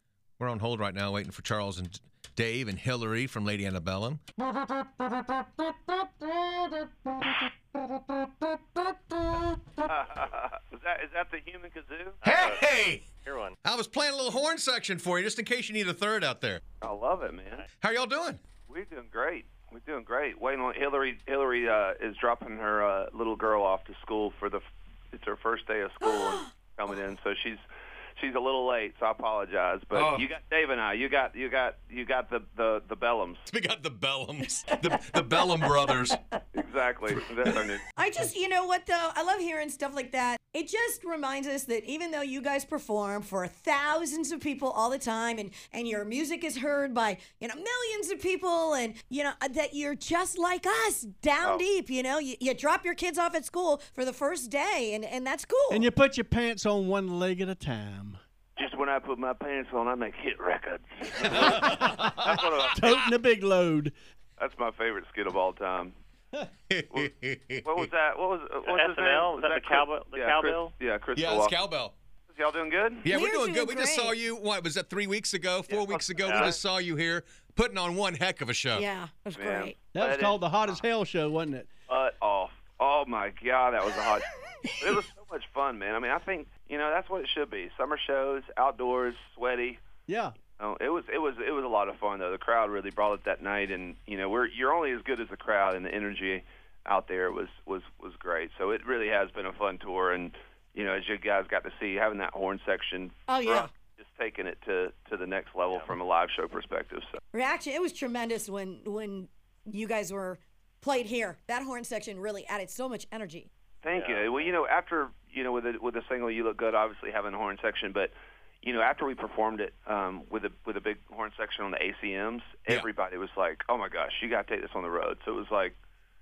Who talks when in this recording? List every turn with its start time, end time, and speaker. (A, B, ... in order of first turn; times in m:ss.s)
0:00.4-0:04.2 A
0:09.8-0:12.2 B
0:12.2-0:13.6 C
0:12.2-0:13.0 A
0:13.6-0:16.6 A
0:16.8-0:17.6 B
0:17.8-0:18.4 A
0:18.7-0:27.6 B
0:28.2-0:33.5 B
0:29.9-0:30.3 A
0:33.5-0:36.2 A
0:36.5-0:37.8 B
0:38.0-0:55.9 D
0:55.7-0:58.2 E
0:58.6-1:03.0 B
1:01.2-1:02.9 A
1:01.3-1:04.0 E
1:04.4-1:06.0 B
1:06.7-1:07.7 A
1:07.6-1:11.6 B
1:08.6-1:10.8 C
1:11.2-1:12.0 A
1:12.3-1:13.1 B
1:13.0-1:18.9 A
1:13.1-1:14.2 D
1:15.7-1:16.6 B
1:16.2-1:16.6 C
1:18.7-1:19.8 D
1:19.3-1:20.7 B
1:19.9-1:21.7 E
1:21.9-1:29.8 B
1:30.1-1:30.4 E
1:30.6-1:47.2 B
1:43.3-1:43.7 D
1:47.3-1:53.5 D
1:53.8-2:05.8 B
1:53.9-1:54.6 C